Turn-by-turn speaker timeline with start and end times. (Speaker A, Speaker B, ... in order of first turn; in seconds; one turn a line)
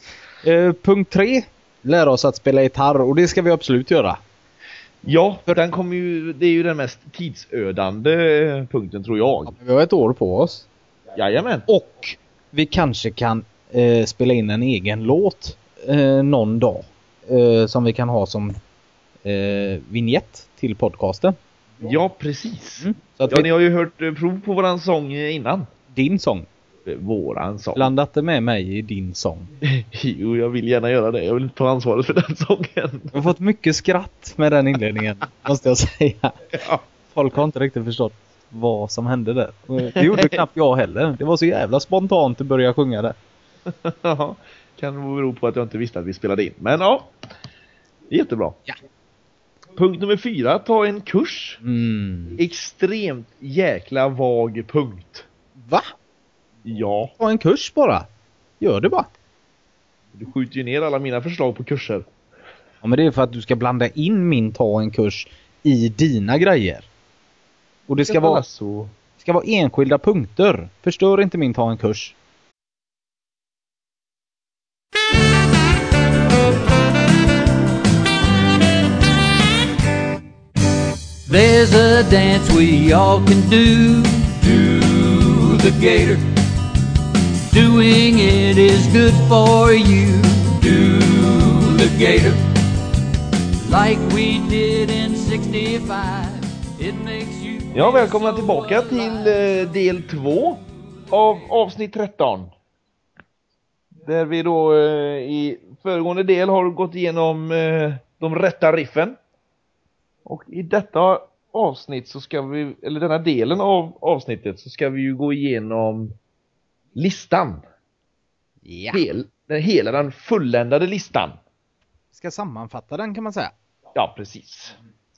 Speaker A: 0.4-4.2
Speaker B: 5.0-9.5
Speaker A: 9.5-10.6
Speaker B: 11.1-11.7
Speaker A: 11.7-18.5
Speaker A: 19.2-21.4
Speaker B: 21.8-25.7
Speaker A: 22.8-23.5
Speaker A: 25.9-26.5
Speaker B: 26.9-27.9
Speaker A: 27.8-29.5
Speaker B: 29.6-33.1
Speaker A: 33.1-36.4
Speaker B: 36.5-36.8
Speaker A: 37.1-43.2
Speaker B: 39.9-40.4
Speaker B: 43.7-47.1
Speaker B: 48.1-48.6
Speaker B: 49.8-51.6
Speaker A: 51.6-52.4
Speaker B: 52.4-55.3
Speaker A: 55.6-55.9
Speaker B: 56.6-57.1
Speaker A: 57.2-58.1
Speaker A: 58.6-59.1
Speaker B: 60.1-62.1
Speaker A: 62.8-66.9
Speaker A: 67.9-68.4
Speaker B: 68.1-68.9
Speaker A: 69.2-72.1
Speaker C: 81.3-86.2
Speaker C: 87.5-92.4
Speaker C: 93.6-99.2
Speaker B: 97.7-102.5
Speaker B: 104.0-109.2
Speaker B: 110.2-116.1
Speaker B: 117.0-117.6
Speaker A: 118.6-119.0
Speaker B: 118.9-121.4
Speaker A: 122.1-123.5
Speaker B: 123.9-124.8